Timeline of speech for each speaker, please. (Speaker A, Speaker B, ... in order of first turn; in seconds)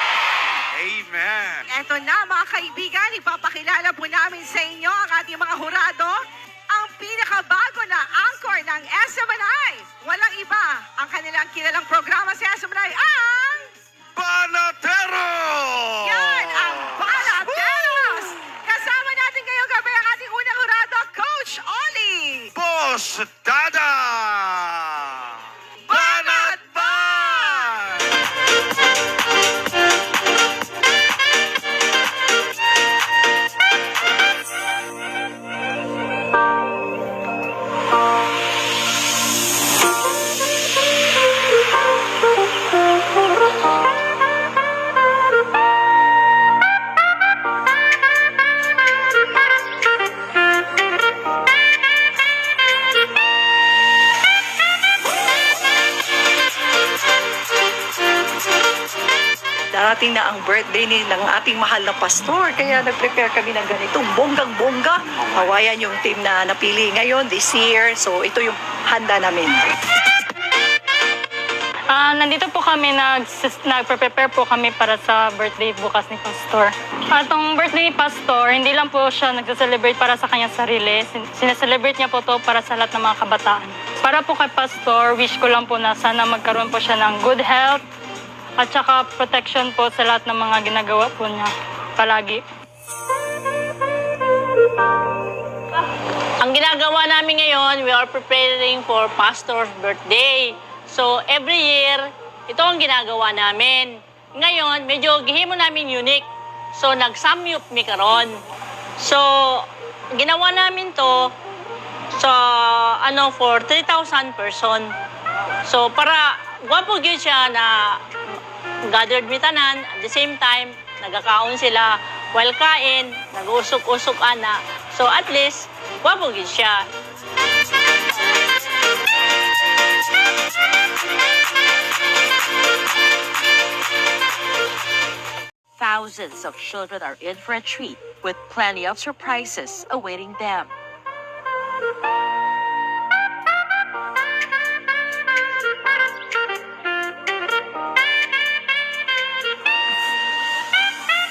Speaker A: 0.7-1.6, 14.2-15.2, 22.6-25.2
Speaker B: 1.7-13.7, 16.0-22.5, 25.9-27.8
Speaker C: 59.7-69.6
Speaker D: 71.9-87.8, 88.6-92.4
Speaker E: 96.4-108.3, 109.0-111.3, 112.2-114.9, 115.6-118.0, 118.9-126.8
Speaker F: 135.8-140.7